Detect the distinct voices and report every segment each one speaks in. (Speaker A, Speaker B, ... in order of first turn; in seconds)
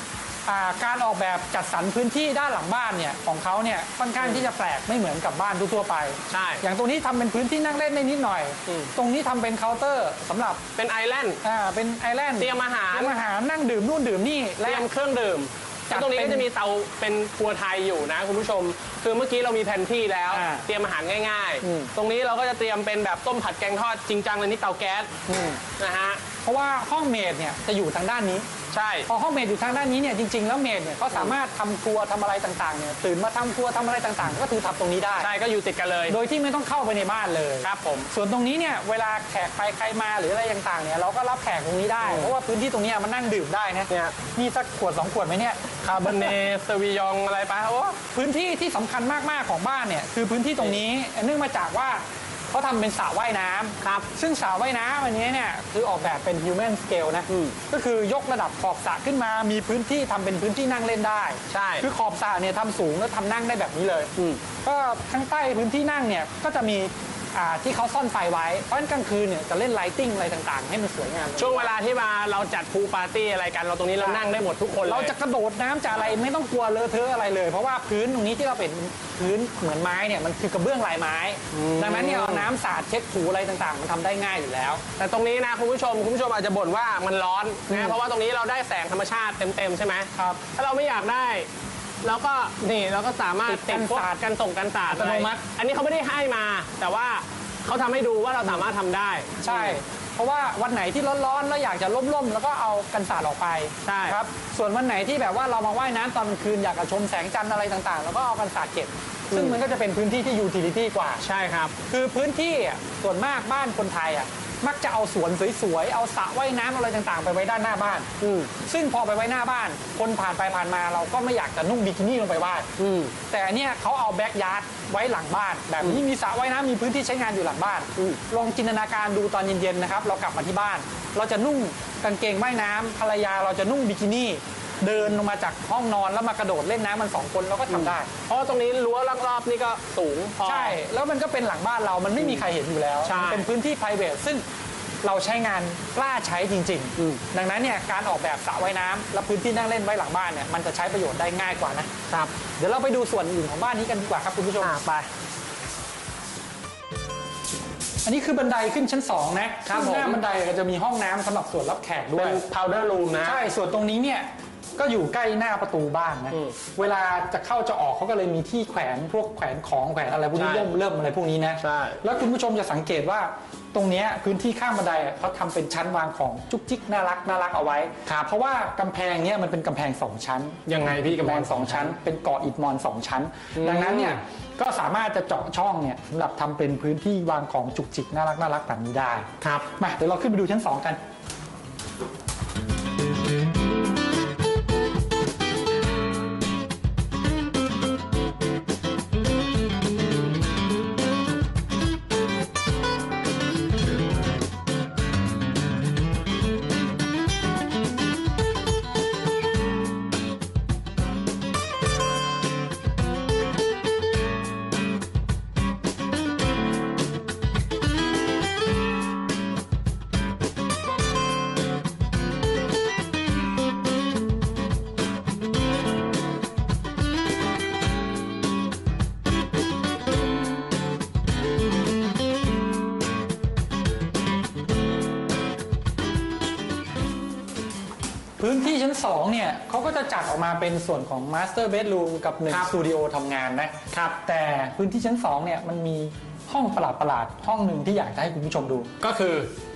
Speaker A: 0.5-10.6, 11.4-14.9, 15.9-16.5, 20.3-20.7, 21.6-21.9, 25.3-25.6, 26.4-28.5, 29.1-35.3, 36.1-46.3, 48.1-71.7, 74.8-84.8, 87.7-88.0, 93.5-94.2, 94.9-95.3, 99.4-111.2, 111.9-122.7, 123.3-138.1, 140.4-144.4, 145.0-151.9, 152.6-154.8, 158.0-162.4, 163.2-191.0, 238.4-248.9
Speaker B: 4.2-4.5, 6.3-6.6, 8.7-8.9, 10.8-11.4, 12.4-13.1, 14.6-25.2, 25.7-26.2, 28.7-29.1, 35.2-36.2, 37.6-38.1, 42.0-42.3, 43.9-44.1, 45.8-48.0, 53.8-54.1, 57.3-57.6, 61.5-61.9, 64.2-64.4, 71.4-75.2, 81.5-82.5, 85.0-91.5, 92.0-99.8, 103.8-104.2, 109.3-109.6, 111.2-111.8, 118.2-118.5, 122.8-123.2, 137.7-140.8, 143.0-143.4, 154.6-155.1, 159.7-160.2, 162.2-163.4, 170.3-170.7, 171.6-172.0, 180.7-181.9, 183.6-184.2, 189.4-189.7, 243.9-244.2, 249.0-249.5